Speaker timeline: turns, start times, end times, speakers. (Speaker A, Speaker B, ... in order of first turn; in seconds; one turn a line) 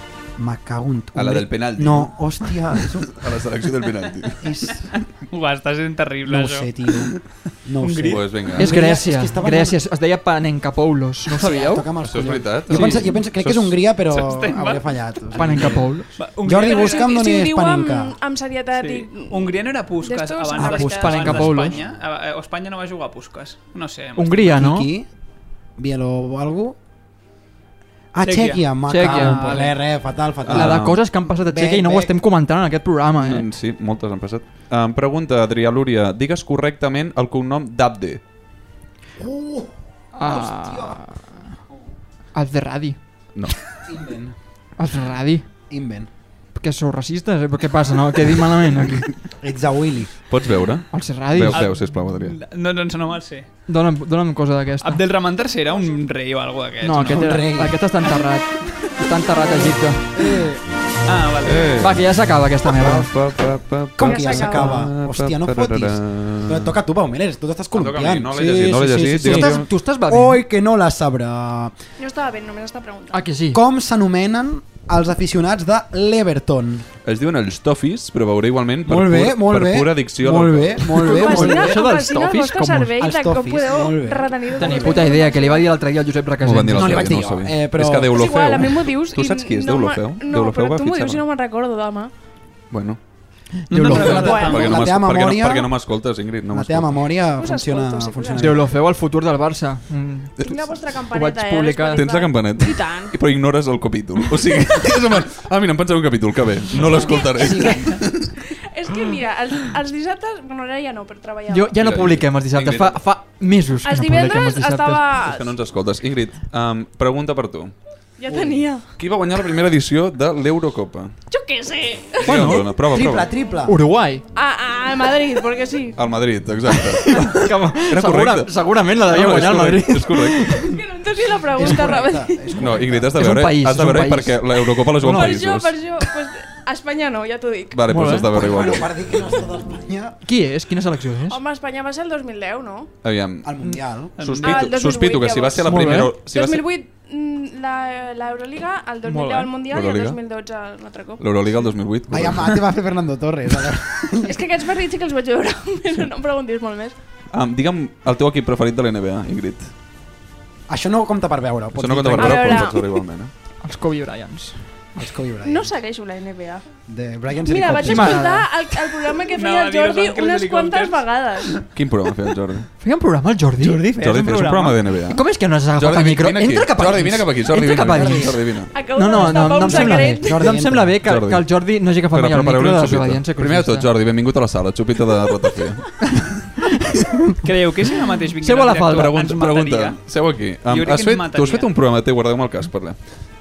Speaker A: 0.4-3.1
Speaker B: 1.1-4.5
Speaker A: 4.4-4.9
Speaker C: 5.3-6.7
Speaker A: 6.3-9.8
Speaker C: 7.8-8.2
Speaker B: 8.0-8.8
Speaker D: 8.6-11.9
Speaker A: 11.3-18.1
Speaker B: 12.1-13.8
Speaker C: 14.1-15.0
Speaker D: 15.3-16.1
Speaker C: 16.2-17.1
Speaker E: 16.6-21.2
Speaker C: 18.8-24.6
Speaker A: 20.6-21.7
Speaker D: 20.8-21.8
Speaker D: 24.2-24.9
Speaker A: 24.5-25.1
Speaker A: 25.8-26.8
Speaker A: 28.1-32.1
Speaker C: 28.2-29.8
Speaker D: 28.9-29.4
Speaker B: 30.4-31.0
Speaker D: 30.5-33.5
Speaker B: 33.2-38.2
Speaker A: 39.2-41.0
Speaker D: 40.2-41.3
Speaker D: 42.4-43.0
Speaker A: 43.8-44.4
Speaker D: 44.8-45.5
Speaker A: 45.7-46.1
Speaker D: 46.5-49.1
Speaker A: 49.4-50.1
Speaker B: 50.3-52.4
Speaker D: 50.9-51.7
Speaker C: 51.5-53.5
Speaker D: 53.7-55.0
Speaker C: 54.8-57.4
Speaker D: 56.8-60.1
Speaker A: 57.0-57.8
Speaker A: 60.1-60.6
Speaker C: 61.0-61.8
Speaker B: 61.4-62.2
Speaker D: 61.8-63.1
Speaker A: 62.7-63.1
Speaker B: 62.8-66.8
Speaker A: 64.0-71.7
Speaker E: 64.0-64.8
Speaker B: 67.7-69.7
Speaker D: 69.1-70.4
Speaker E: 72.0-73.2
Speaker D: 73.1-73.6
Speaker A: 73.5-76.9
Speaker B: 77.0-81.1
Speaker A: 78.8-81.8
Speaker D: 80.9-83.0
Speaker E: 81.0-85.7
Speaker A: 83.0-84.9
Speaker D: 84.6-87.2
Speaker B: 86.4-91.2
Speaker A: 86.7-88.3
Speaker E: 88.1-92.1
Speaker B: 92.7-93.0
Speaker D: 93.7-94.1
Speaker C: 93.7-94.7
Speaker A: 93.7-95.8
Speaker B: 93.9-97.2
Speaker E: 94.1-94.8
Speaker A: 96.5-98.7
Speaker E: 97.3-98.6
Speaker D: 98.4-100.4
Speaker E: 100.4-103.1
Speaker D: 101.1-102.1
Speaker B: 101.9-108.3
Speaker E: 106.8-111.9
Speaker A: 106.9-108.0
Speaker D: 111.5-115.1
Speaker B: 111.8-113.0
Speaker E: 113.8-115.5
Speaker B: 115.2-117.7
Speaker E: 118.2-118.9
Speaker A: 118.3-118.6
Speaker B: 119.0-121.2
Speaker E: 121.3-122.6
Speaker B: 122.2-123.3
Speaker D: 122.2-122.7
Speaker A: 122.9-123.8
Speaker D: 123.7-124.2
Speaker E: 124.3-126.0
Speaker B: 126.0-130.7
Speaker D: 126.7-130.7
Speaker E: 130.6-132.5
Speaker A: 131.5-133.1
Speaker B: 132.6-135.8
Speaker D: 133.2-135.4
Speaker E: 135.0-137.8
Speaker B: 137.7-138.9
Speaker D: 137.9-138.3
Speaker A: 138.3-140.2
Speaker D: 140.2-141.4
Speaker E: 141.3-142.9
Speaker B: 143.0-146.7
Speaker A: 143.4-144.2
Speaker C: 144.2-144.7
Speaker E: 144.4-151.2
Speaker D: 145.7-146.1
Speaker C: 149.1-149.5
Speaker B: 149.7-150.2
Speaker B: 151.2-152.6
Speaker A: 152.1-154.4
Speaker E: 154.2-156.9
Speaker B: 157.3-159.7
Speaker A: 160.7-162.7
Speaker B: 161.8-163.3
Speaker E: 162.2-162.9
Speaker D: 163.6-164.6
Speaker A: 165.0-165.8
Speaker E: 165.5-166.6
Speaker A: 166.9-168.2
Speaker E: 167.5-171.7
Speaker D: 167.8-168.5
Speaker C: 169.3-171.6
Speaker B: 171.7-172.7
Speaker D: 172.8-173.8
Speaker C: 173.6-174.8
Speaker B: 173.9-178.7
Speaker D: 175.1-183.9
Speaker A: 177.8-178.4
Speaker E: 178.7-180.6
Speaker A: 179.6-181.0
Speaker B: 181.0-181.5
Speaker B: 182.1-186.5
Speaker D: 186.7-187.3
Speaker C: 187.4-190.0
Speaker D: 188.4-189.1
Speaker B: 188.9-193.0
Speaker C: 190.7-191.7